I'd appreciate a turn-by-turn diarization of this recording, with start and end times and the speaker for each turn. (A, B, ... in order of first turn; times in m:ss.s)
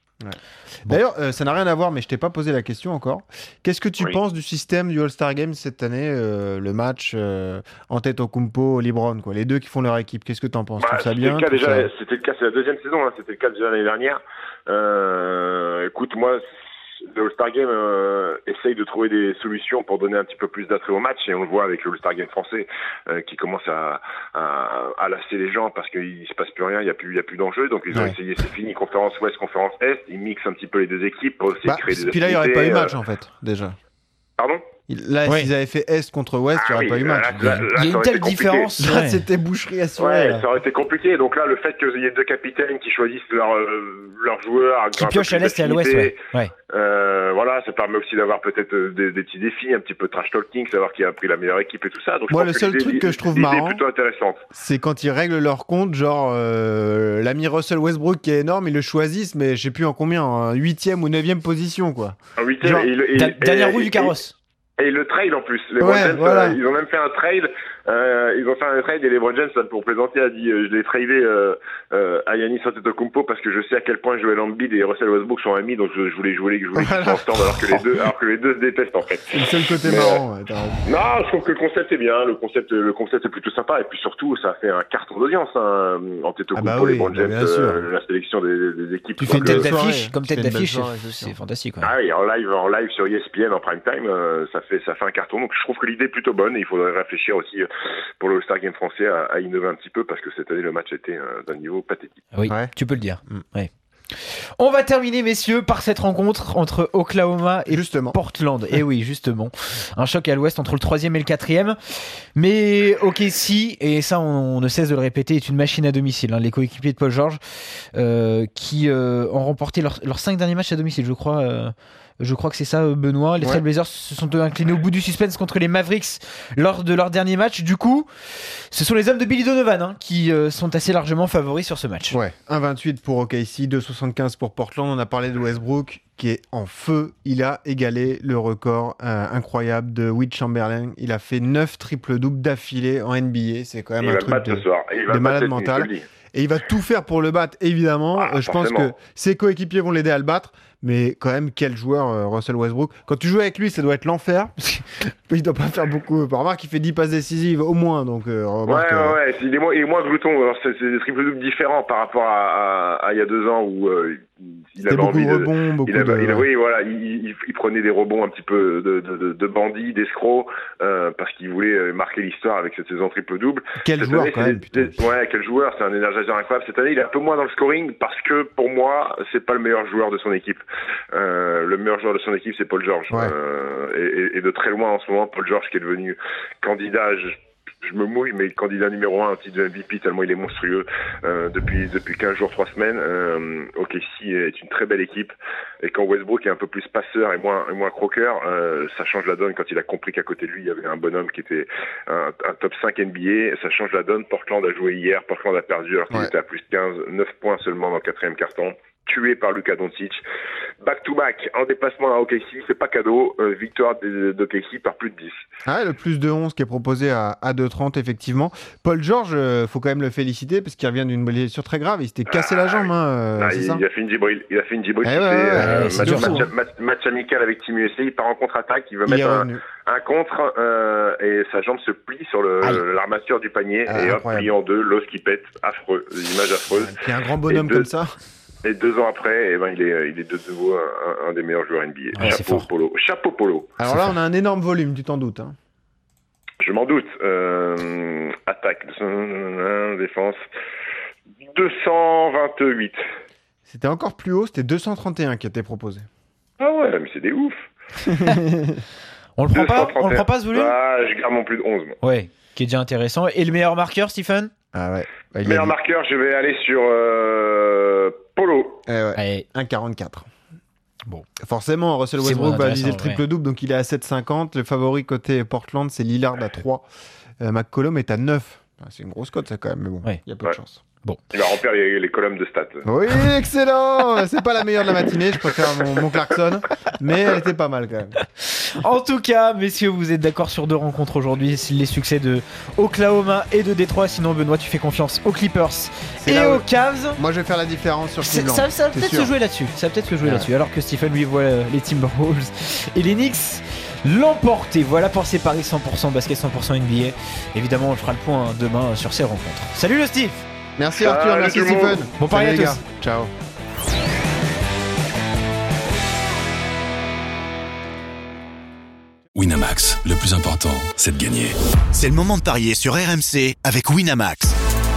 0:00.2-0:11.9 A
0:10.8-0:16.4 B
0:17.0-0:32.9 B
0:27.9-0:28.2 A
0:31.6-0:33.7 A
0:34.4-0:34.6 B
0:34.9-0:37.6 A
0:35.2-0:35.5 C
0:36.6-0:38.7 B
0:37.4-0:39.2 C
0:38.8-0:40.4 A
0:40.0-0:46.2 B
0:44.9-0:46.5 C
0:46.7-0:54.4 B
0:52.3-0:53.8 A
0:54.5-1:02.9 A
1:02.4-1:04.1 B
1:03.1-1:04.3 C
1:04.8-1:20.2 B
1:05.8-1:06.6 A
1:16.7-1:17.8 A
1:19.3-1:20.8 A
1:20.8-1:29.7 B
1:26.5-1:27.8 A
1:29.2-1:31.3 A
1:29.3-1:31.9 C
1:31.8-1:37.7 B
1:38.2-1:42.2 B
1:42.3-2:12.2 C
1:42.5-1:42.7 A
1:47.7-1:48.2 A
2:12.1-2:39.2 A
2:24.0-2:26.0 B
2:28.2-2:28.9 B
2:38.7-3:30.2 B
2:44.8-2:46.4 A
2:53.8-2:55.0 A
3:30.8-3:35.4 B
3:35.6-3:43.8 A
3:42.3-3:57.9 B
3:45.0-3:46.4 A
3:45.6-3:46.4 C
3:49.0-3:49.6 A
3:53.9-3:54.5 A
3:56.7-3:58.1 A
3:58.6-4:03.7 B
4:02.1-4:02.7 C
4:03.8-4:05.5 A
4:06.6-4:10.4 B
4:11.4-4:13.0 B
4:13.7-4:16.0 A
4:16.6-4:17.5 B
4:18.1-4:18.8 A
4:19.4-4:20.7 C
4:19.5-4:22.0 B
4:22.0-4:24.5 C
4:24.7-4:25.7 A
4:25.4-4:28.8 B
4:28.9-4:30.2 A
4:29.1-4:29.4 C
4:31.4-4:36.8 A
4:32.2-4:33.2 C
4:37.4-4:40.8 A
4:41.3-4:42.8 B
4:42.8-4:48.2 A
4:48.6-4:57.2 C
4:56.2-4:59.3 A
4:58.2-5:10.4 C
5:00.2-5:00.5 A
5:10.8-5:13.3 A
5:11.0-5:12.1 B
5:12.2-5:12.8 C
5:19.4-5:21.5 D
5:21.9-5:24.6 E